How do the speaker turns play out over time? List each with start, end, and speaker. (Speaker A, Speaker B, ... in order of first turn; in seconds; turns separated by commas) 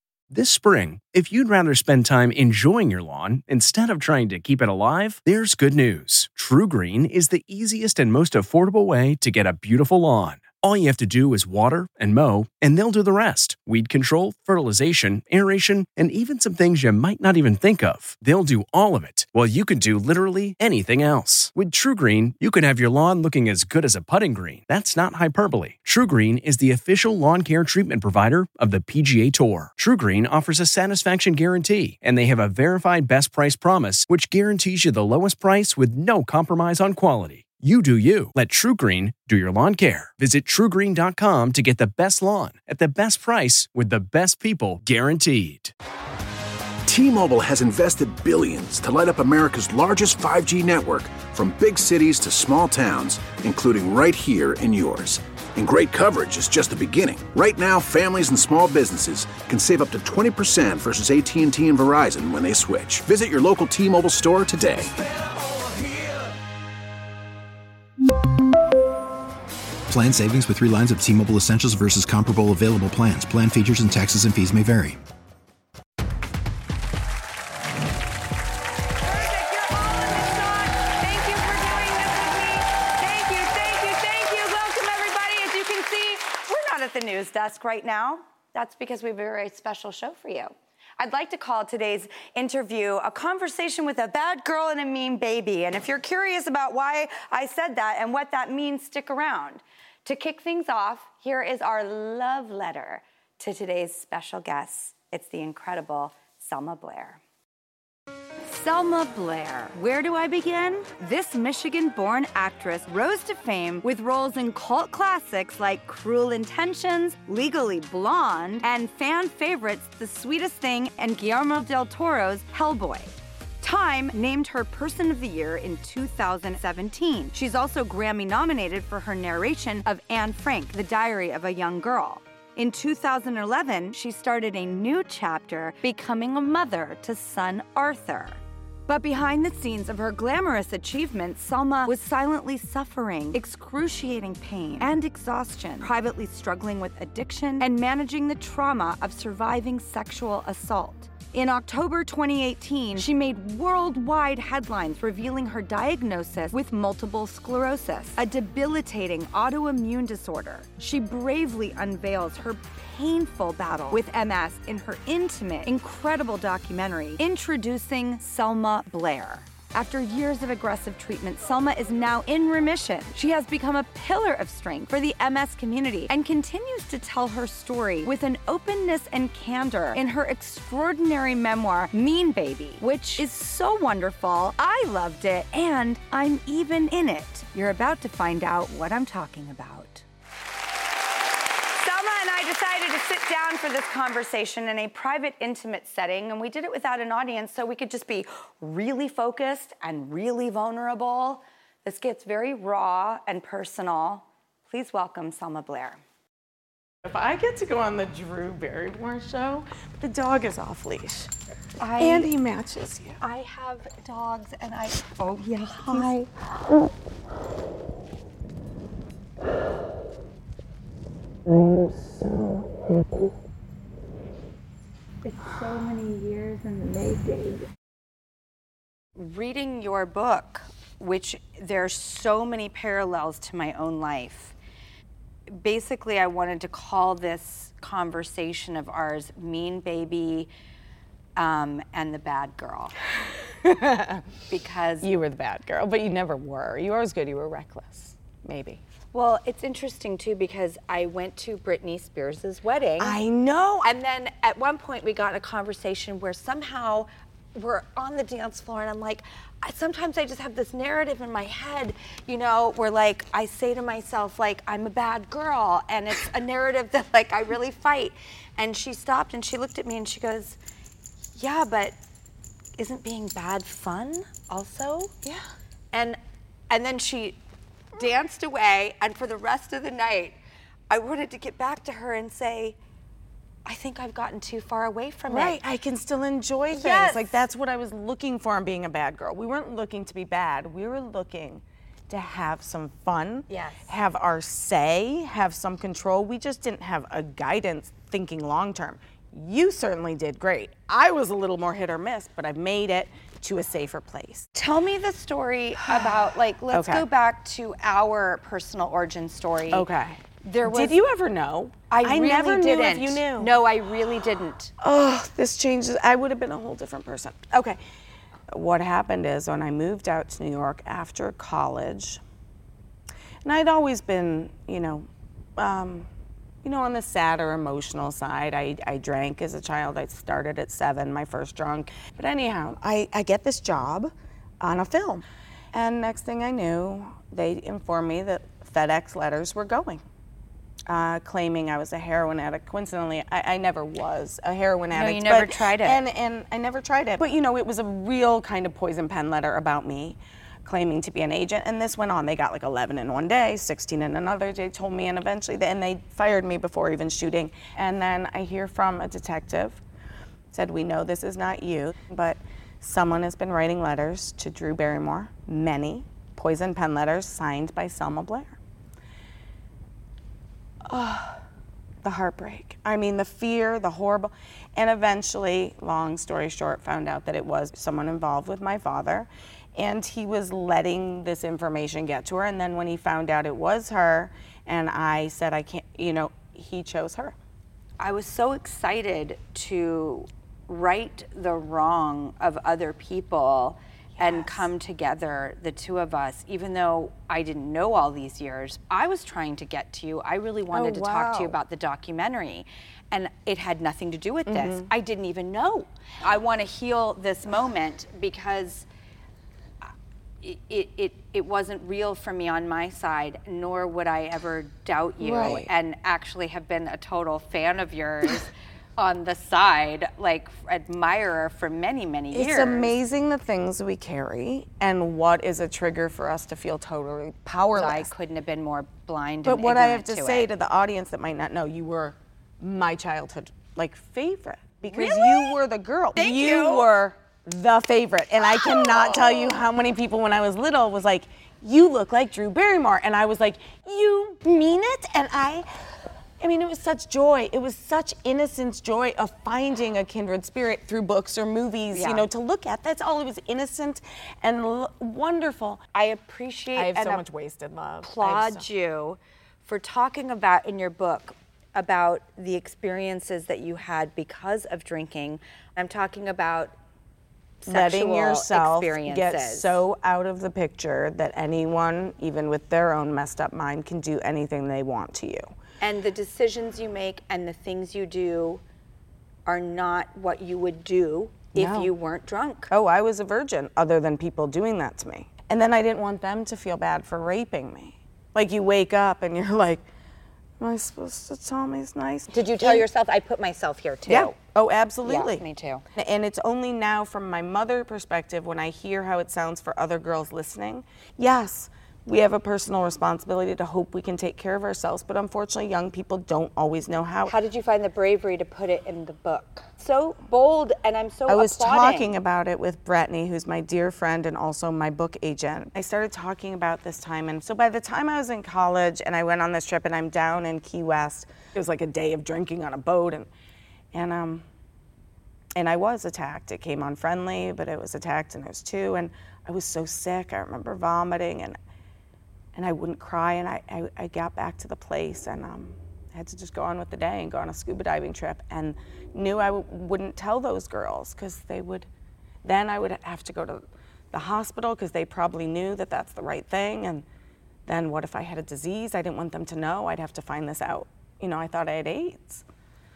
Speaker A: 0.3-45.7, Speaker B: 46.9-64.9, Speaker C: 69.9-75.0, Speaker D: 79.0-107.2, Speaker D: 108.4-190.1, Speaker D: 191.8-206.0, Speaker E: 207.1-211.3, Speaker D: 211.8-212.3, Speaker E: 212.0-213.2, Speaker D: 213.2-216.3, Speaker D: 225.2-227.7, Speaker D: 229.2-234.6, Speaker D: 235.5-240.5, Speaker D: 241.4-242.9, Speaker E: 243.6-244.3, Speaker D: 244.5-245.1, Speaker E: 245.0-248.8, Speaker D: 249.1-253.2, Speaker E: 253.0-253.9, Speaker D: 253.8-270.6, Speaker D: 271.4-272.0, Speaker D: 272.8-275.1, Speaker D: 275.9-276.2, Speaker D: 276.7-277.4, Speaker D: 277.9-280.4, Speaker D: 280.9-282.8, Speaker D: 283.6-285.6, Speaker E: 285.3-304.5, Speaker D: 286.7-287.3, Speaker D: 293.5-293.9, Speaker D: 304.5-309.9, Speaker E: 305.9-306.2, Speaker E: 306.7-307.1, Speaker E: 309.7-313.5, Speaker D: 310.4-311.0, Speaker D: 311.9-314.7, Speaker E: 314.8-317.8, Speaker E: 318.5-322.2, Speaker E: 323.4-326.1, Speaker E: 326.6-340.0, Speaker E: 340.9-359.8, Speaker D: 344.9-346.0, Speaker E: 360.5-368.6, Speaker E: 370.9-371.4, Speaker E: 372.0-387.4, Speaker D: 388.0-408.9, Speaker E: 394.2-394.6, Speaker E: 400.7-401.6, Speaker E: 404.5-404.9, Speaker D: 410.4-422.9, Speaker E: 415.2-415.7, Speaker E: 422.3-428.1, Speaker D: 427.8-430.5, Speaker E: 429.4-445.6, Speaker D: 434.9-435.6, Speaker D: 436.1-436.9, Speaker D: 438.4-439.5, Speaker E: 446.4-455.8, Speaker D: 451.9-452.2, Speaker D: 455.9-457.2, Speaker E: 456.8-458.6, Speaker D: 458.0-466.8, Speaker D: 467.6-469.8, Speaker E: 467.6-475.5, Speaker D: 475.8-478.6, Speaker D: 479.4-482.7, Speaker E: 481.5-481.9, Speaker E: 482.7-489.8, Speaker E: 490.6-492.9, Speaker D: 492.3-494.3, Speaker E: 494.1-495.4, Speaker D: 495.0-495.8, Speaker E: 495.9-507.3, Speaker D: 507.3-512.1, Speaker E: 511.3-523.3, Speaker E: 523.9-524.5, Speaker E: 525.6-531.6, Speaker E: 532.5-541.9, Speaker E: 542.4-547.0, Speaker E: 547.7-552.4